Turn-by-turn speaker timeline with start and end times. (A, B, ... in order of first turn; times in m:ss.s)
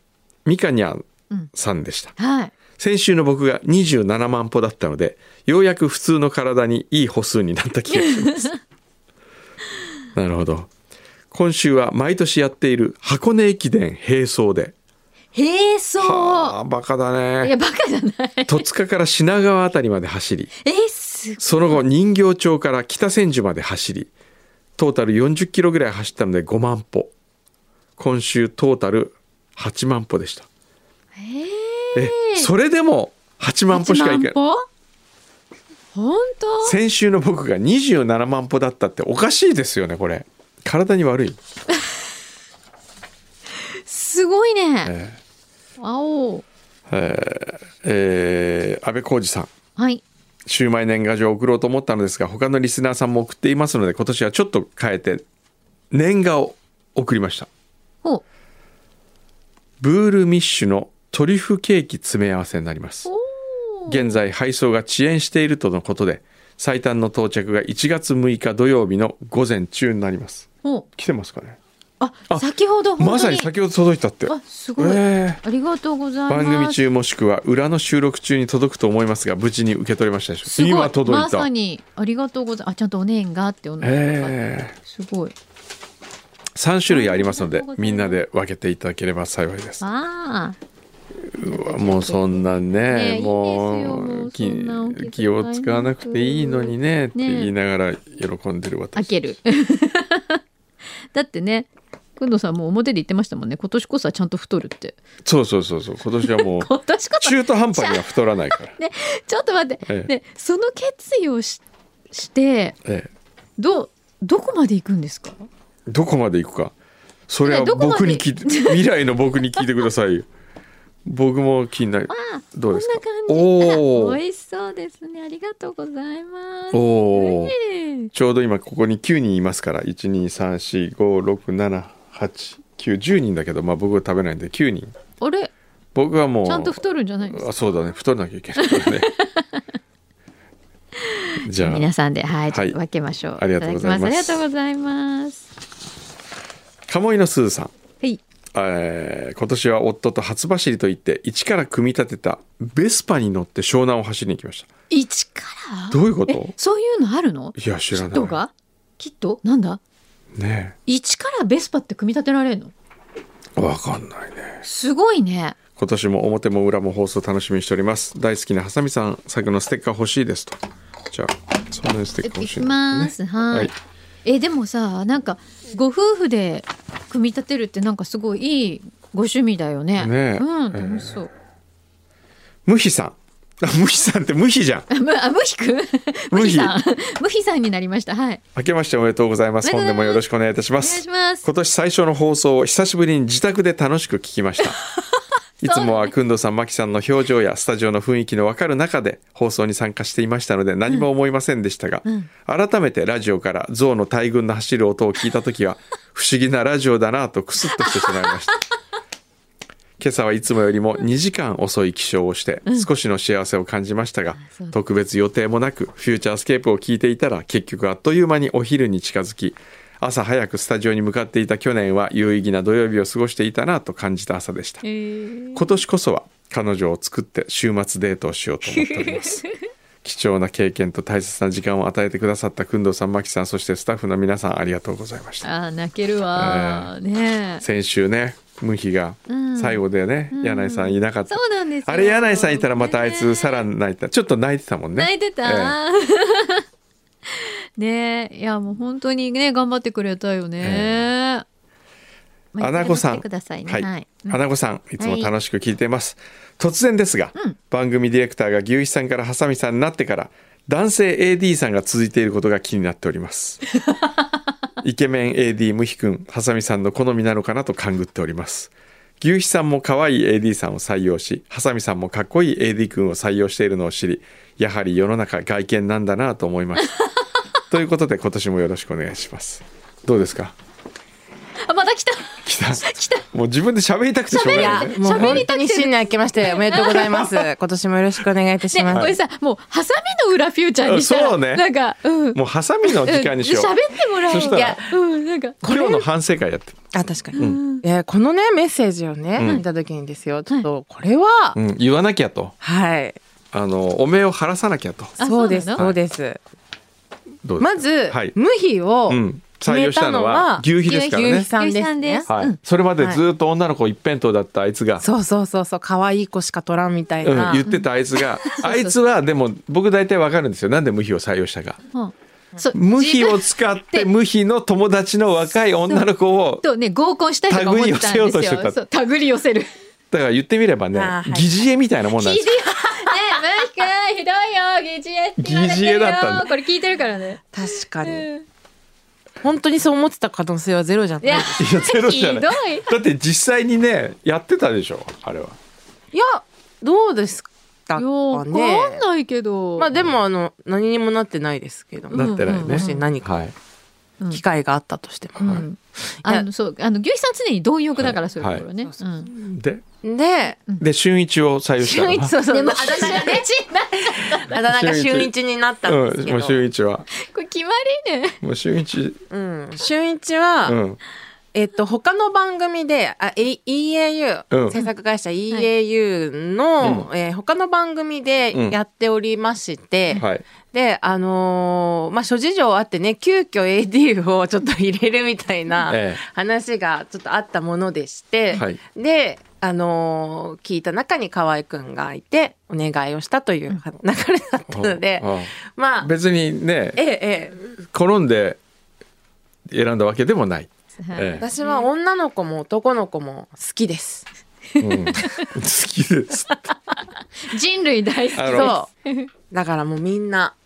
0:00.5-0:02.2 A
0:02.2-0:02.5 B
0:02.8-0:08.5 A
0:07.9-0:08.6 B
0:10.2-0:10.7 A
0:11.3-0:14.8 A
0:15.3-0:16.6 B
0:16.0-0:17.5 A
0:17.4-0:18.6 B
0:18.5-0:20.5 A
0:20.6-0:21.8 B
0:21.4-0:24.1 A
0:24.8-0:27.1 A
0:28.0-0:30.5 A
0:31.2-0:32.5 B
0:32.0-0:34.4 A
0:33.7-0:34.6 B
0:35.9-0:36.8 B
0:36.6-0:41.4 A
0:43.8-0:45.0 B
0:44.9-0:45.2 A
0:45.8-0:46.4 B
0:46.9-0:49.5 A
0:49.8-0:50.0 B
0:50.5-0:55.2 A
0:55.9-0:57.5 A
0:59.8-1:03.1 A
1:03.0-1:04.2 B
1:03.9-1:11.6 A
1:12.0-1:13.5 B
1:13.0-1:15.4 A
1:14.3-1:16.8 B
1:16.3-1:21.5 A
1:20.4-1:25.3 B
1:23.8-1:24.8 A
1:26.6-1:29.8 A
1:26.9-1:28.2 B
1:29.8-1:30.6 B
1:31.3-1:39.1 A
1:31.4-1:32.4 B
1:32.9-1:37.5 B
1:39.0-1:40.4 B
1:41.1-1:45.0 B
1:45.2-1:48.7 A
1:46.2-1:52.8 B
1:52.8-1:53.1 A
1:53.6-1:55.5 B
1:55.9-1:56.7 A
1:57.3-2:00.3 A
1:57.4-1:58.8 B
2:01.0-2:04.2 A
2:02.1-2:08.1 B
2:06.7-2:07.6 A
2:08.1-2:14.9 A
2:15.2-2:15.5 B
2:16.0-2:19.1 A
2:16.4-2:17.5 B
2:18.6-2:19.6 B
2:21.4-2:25.5 B
2:21.4-2:21.9 A
2:22.5-2:22.8 A
2:23.4-2:24.4 A
2:26.9-2:27.7 A
2:28.6-2:34.7 A
2:34.9-2:39.8 B
2:35.9-2:36.6 A
2:37.6-2:38.4 A
2:40.4-2:40.8 A
2:40.9-2:42.7 B
2:43.6-2:44.6 A
2:44.6-2:45.6 B
2:45.8-2:50.6 A
2:51.1-2:53.7 A
2:52.2-2:53.7 B
2:54.2-3:01.3 B
3:00.0-3:01.2 A
3:02.7-3:04.9 A
3:04.9-3:08.4 B
3:06.3-3:06.8 A
3:08.6-3:14.8 A
3:09.6-3:10.2 B
3:10.8-3:11.5 B
3:15.0-3:16.1 B
3:15.6-3:28.6 A
3:30.0-3:44.8 A
3:34.4-3:34.8 B
3:44.8-3:45.8 B
3:45.6-3:49.4 A
3:48.6-3:49.6 B
3:50.0-3:55.5 A
3:55.4-3:57.6 B
3:56.4-3:56.9 A
3:57.6-4:05.8 A
3:59.3-4:03.6 B
4:05.0-4:06.6 B
4:07.3-4:11.4 B
4:10.6-4:11.0 A
4:12.5-4:14.4 B
4:12.6-4:23.6 A
4:15.0-4:15.3 B
4:24.8-4:36.9 A
4:36.8-4:37.0 B
4:37.7-4:40.5 A
4:41.6-4:43.3 B
4:42.4-4:45.5 A
4:44.3-4:47.4 B
4:44.4-4:49.2 C
4:48.7-4:56.0 B
4:48.9-4:49.2 A
4:50.8-4:51.6 A
4:52.3-4:54.8 A
4:54.3-4:54.9 C
4:55.6-4:56.0 C
4:55.6-4:57.6 A
4:56.9-5:01.6 C
4:57.4-4:57.8 B
4:59.4-4:59.6 A
5:01.6-5:02.6 A
5:02.6-5:03.2 C
5:03.5-5:05.2 A
5:05.2-5:05.8 B
5:05.2-5:06.4 C
5:07.4-5:08.4 A
5:07.6-5:12.3 C
5:09.1-5:11.5 A
5:10.8-5:12.6 B
5:12.3-5:15.0 A
5:15.0-5:17.7 C
5:17.2-5:21.8 A
5:17.6-5:17.9 B
5:18.4-5:19.0 B
5:21.9-5:23.4 B
5:22.7-5:26.6 A
5:26.6-5:29.7 B
5:27.5-5:28.8 A
5:30.1-5:32.5 A
5:31.0-5:31.7 C
5:32.2-5:38.5 B
5:35.4-5:36.5 A
5:37.5-5:38.3 C
5:39.4-5:41.6 C
5:41.2-5:43.0 B
5:41.6-5:45.6 A
5:46.1-5:49.0 C
5:48.0-5:49.9 B
5:49.8-5:53.4 C
5:52.1-5:53.5 A
5:52.1-5:53.1 B
5:54.3-5:55.7 C
5:55.4-5:55.7 A
5:55.4-5:59.3 B
5:56.2-5:56.5 C
5:58.0-5:58.6 A
5:59.3-5:59.8 A
6:00.0-6:00.6 C
6:00.8-6:02.3 A
6:01.8-6:03.5 C
6:02.5-6:04.6 B
6:04.1-6:06.6 C
6:04.7-6:05.3 A
6:05.8-6:07.1 A
6:07.1-6:08.4 B
6:08.4-6:09.2 A
6:09.3-6:10.8 C
6:10.6-6:11.0 A
6:11.5-6:36.1 C
6:14.5-6:14.8 A
6:16.8-6:17.1 A
6:20.1-6:20.4 A
6:25.9-6:26.2 A
6:28.5-6:28.8 A
6:34.7-6:37.0 A
6:37.0-6:37.6 C
6:37.9-6:38.6 A
6:39.7-6:41.5 A
6:41.0-6:41.9 B
6:41.4-6:44.3 C
6:44.8-6:45.5 B
6:44.8-6:46.7 A
6:46.5-6:49.3 B
6:48.4-6:48.7 A
6:48.4-6:48.9 C
6:49.5-6:50.6 C